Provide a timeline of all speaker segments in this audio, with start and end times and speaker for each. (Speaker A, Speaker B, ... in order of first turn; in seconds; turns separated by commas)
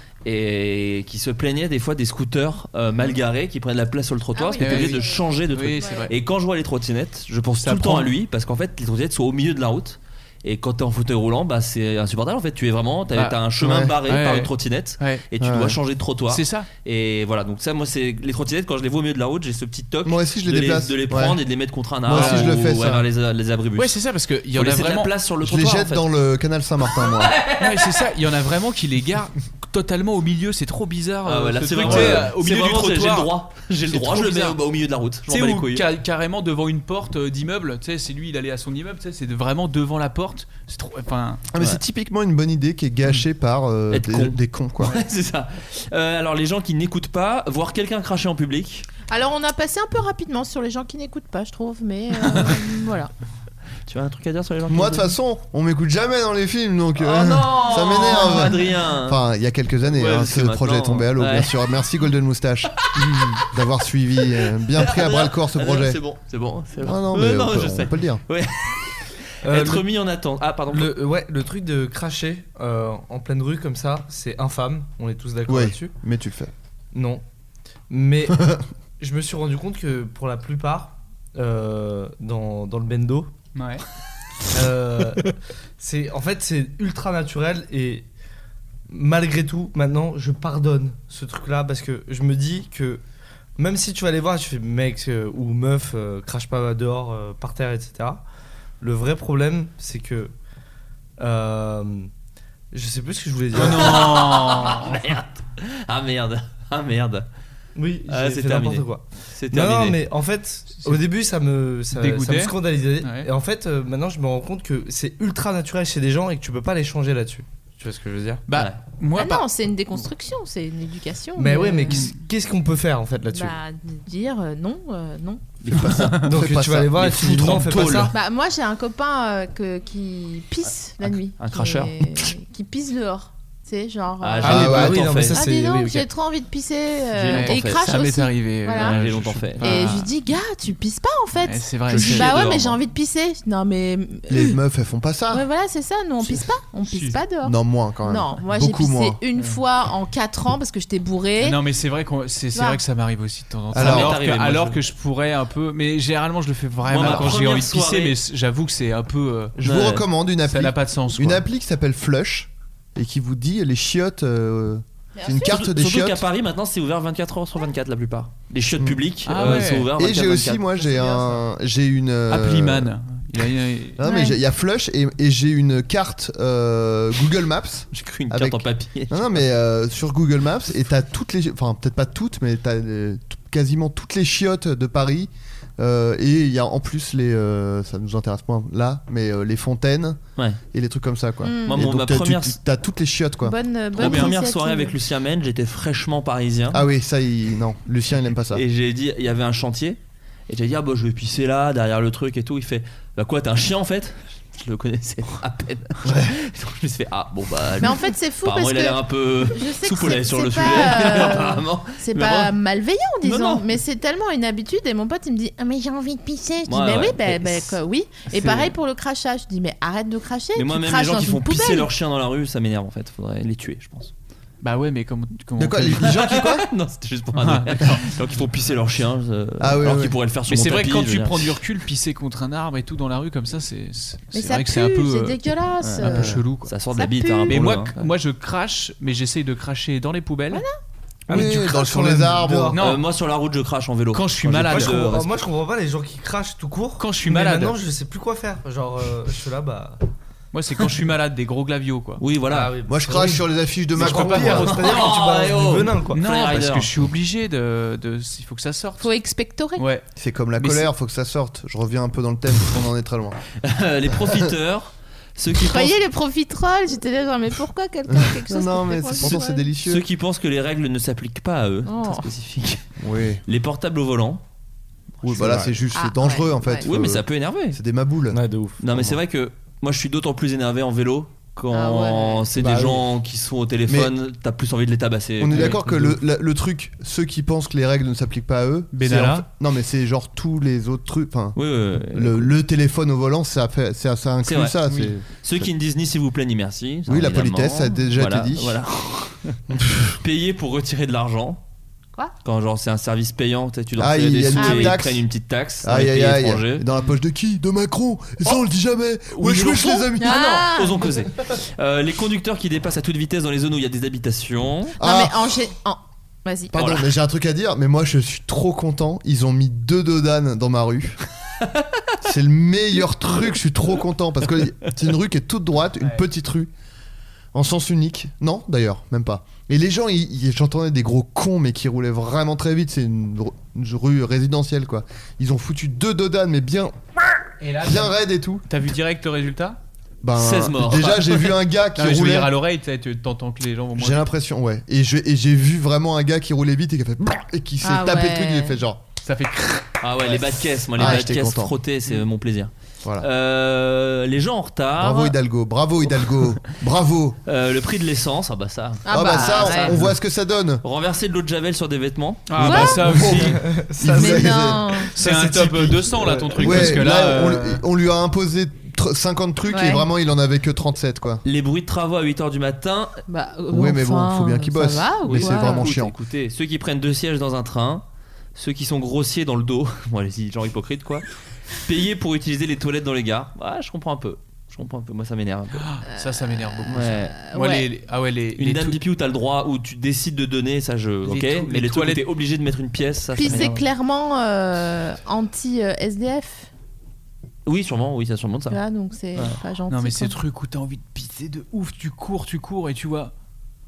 Speaker A: 0.2-24.0, Speaker B: 4.3-6.1, Speaker C: 4.6-6.1, Speaker C: 7.6-8.1, Speaker C: 13.2-13.4, Speaker D: 13.6-13.9, Speaker C: 14.0-15.2, Speaker D: 15.4-15.8, Speaker C: 16.3-16.7, Speaker D: 20.1-21.4, Speaker D: 22.1-23.1, Speaker C: 22.1-22.6, Speaker C: 23.8-25.1, Speaker A: 24.6-26.1, Speaker D: 25.4-27.4, Speaker A: 26.9-27.9, Speaker C: 27.6-33.3, Speaker A: 31.2-35.9, Speaker D: 31.9-32.2, Speaker C: 33.9-34.6, Speaker C: 35.3-41.5, Speaker D: 41.5-45.0, Speaker A: 43.9-48.9, Speaker B: 49.1-53.1, Speaker A: 53.9-55.1, Speaker D: 54.7-66.0, Speaker A: 57.0-59.2, Speaker A: 59.9-61.5, Speaker A: 64.7-70.9, Speaker D: 66.8-68.2, Speaker E: 69.4-69.8, Speaker E: 70.7-75.9, Speaker D: 75.5-76.5, Speaker E: 76.9-77.2, Speaker E: 77.9-83.3, Speaker D: 78.3-78.6, Speaker C: 83.5-83.8, Speaker E: 84.5-88.1, Speaker E: 88.9-93.0, Speaker E: 93.6-98.2, Speaker E: 98.8-100.3, Speaker E: 101.2-102.1, Speaker E: 102.7-104.1, Speaker C: 103.5-105.0, Speaker A: 103.5-107.3, Speaker E: 107.8-118.4, Speaker A: 108.1-110.0, Speaker C: 111.9-113.3, Speaker C: 118.5-119.5, Speaker A: 118.5-118.8, Speaker B: 119.2-122.1, Speaker E: 121.4-123.6, Speaker B: 123.3-125.4, Speaker A: 125.6-126.3, Speaker D: 125.7-128.0, Speaker E: 126.2-128.1, Speaker A: 127.0-128.1, Speaker B: 128.1-139.0, Speaker A: 131.1-132.3, Speaker A: 134.2-135.4, Speaker E: 134.4-136.1, Speaker D: 134.4-135.1, Speaker A: 137.2-137.9, Speaker C: 137.3-140.1, Speaker A: 138.8-139.8, Speaker B: 139.6-144.6, Speaker C: 141.4-142.4, Speaker A: 141.9-142.8, Speaker D: 144.3-145.4, Speaker B: 145.3-151.6, Speaker C: 146.9-147.2, Speaker D: 147.4-149.2, Speaker C: 151.4-159.8, Speaker B: 152.5-152.8, Speaker D: 153.7-154.2, Speaker A: 153.7-154.8, Speaker A: 156.8-158.2, Speaker D: 159.6-166.2, Speaker A: 159.6-160.0, Speaker C: 160.4-161.4, Speaker B: 165.2-165.6, Speaker A: 165.4-170.6, Speaker D: 168.8-172.9, Speaker C: 169.3-169.9, Speaker B: 170.8-171.3, Speaker C: 172.3-174.0, Speaker D: 174.0-190.2, Speaker B: 174.0-174.4, Speaker A: 177.9-179.4, Speaker D: 190.7-194.3, Speaker B: 191.4-191.8, Speaker A: 191.7-192.6, Speaker B: 193.4-194.9, Speaker A: 194.0-196.8, Speaker D: 196.7-198.6, Speaker A: 198.5-212.5, Speaker D: 206.1-206.3, Speaker B: 207.8-221.9, Speaker A: 213.2-213.7, Speaker A: 216.7-217.8, Speaker C: 218.3-218.7, Speaker A: 220.6-224.1, Speaker C: 224.6-226.2, Speaker D: 225.6-226.7, Speaker A: 226.0-231.6, Speaker C: 227.3-228.0, Speaker D: 229.6-230.2, Speaker C: 230.5-235.4, Speaker B: 234.3-236.3, Speaker A: 235.8-238.1, Speaker C: 236.0-236.7, Speaker D: 236.1-236.4, Speaker B: 236.9-237.6, Speaker C: 237.5-240.7, Speaker E: 241.3-242.8, Speaker D: 241.3-242.8, Speaker C: 242.7-243.0, Speaker A: 242.7-245.3, Speaker C: 244.1-245.1, Speaker E: 244.5-250.0, Speaker C: 247.0-247.8, Speaker C: 250.5-252.2, Speaker A: 252.2-252.8, Speaker E: 252.5-256.2, Speaker D: 252.9-254.8, Speaker C: 253.9-255.2, Speaker A: 254.7-256.9, Speaker C: 256.1-259.1, Speaker B: 259.0-259.8, Speaker C: 259.8-260.1, Speaker D: 260.2-263.4, Speaker C: 260.6-260.9, Speaker A: 263.6-266.0, Speaker B: 265.5-269.7, Speaker D: 268.1-270.1, Speaker A: 269.2-272.9, Speaker B: 271.9-272.3, Speaker D: 273.0-273.4, Speaker A: 273.5-274.4, Speaker A: 275.2-275.7, Speaker D: 275.2-278.4, Speaker E: 275.2-275.7, Speaker B: 275.9-276.9, Speaker A: 276.8-277.8, Speaker E: 278.3-278.8, Speaker A: 278.8-285.8, Speaker B: 281.7-282.5, Speaker D: 282.6-283.0, Speaker D: 283.9-284.1, Speaker D: 285.4-291.6, Speaker E: 285.5-286.2, Speaker C: 288.9-289.5, Speaker A: 291.6-292.5, Speaker D: 292.1-295.6, Speaker A: 294.4-301.6, Speaker C: 294.9-295.1, Speaker D: 297.1-298.8, Speaker D: 299.7-300.0, Speaker A: 302.4-306.9, Speaker D: 304.0-305.2, Speaker B: 304.5-304.9, Speaker D: 305.8-310.5, Speaker A: 309.3-315.0, Speaker B: 310.2-311.2, Speaker D: 315.0-315.6, Speaker B: 315.0-316.7, Speaker D: 316.7-321.2, Speaker A: 316.7-317.1, Speaker D: 322.2-326.7, Speaker D: 327.5-337.0, Speaker C: 337.6-338.1, Speaker D: 337.8-338.6, Speaker C: 338.7-339.8, Speaker D: 340.2-342.5, Speaker A: 340.4-341.5, Speaker C: 342.0-344.3, Speaker D: 344.0-349.0, Speaker B: 347.8-348.8, Speaker C: 349.2-350.0, Speaker A: 350.0-355.4, Speaker D: 351.0-351.8, Speaker D: 355.0-357.4, Speaker A: 357.5-360.0, Speaker B: 359.1-359.9, Speaker D: 359.1-360.8, Speaker A: 360.8-363.2, Speaker C: 362.5-363.6, Speaker D: 362.6-365.0, Speaker B: 362.6-363.0, Speaker E: 363.2-367.0, Speaker B: 364.2-365.1, Speaker C: 365.1-367.8, Speaker D: 366.6-371.4, Speaker B: 369.7-370.1, Speaker A: 371.4-373.2, Speaker B: 373.3-375.9, Speaker D: 373.7-376.1, Speaker A: 375.3-378.0, Speaker A: 378.6-381.3, Speaker A: 381.8-385.9, Speaker C: 385.7-389.0, Speaker B: 386.1-387.9, Speaker A: 386.9-387.4, Speaker A: 388.6-393.8, Speaker C: 391.2-392.2, Speaker B: 393.4-396.7, Speaker A: 397.7-398.8, Speaker B: 398.7-400.4, Speaker C: 399.9-403.3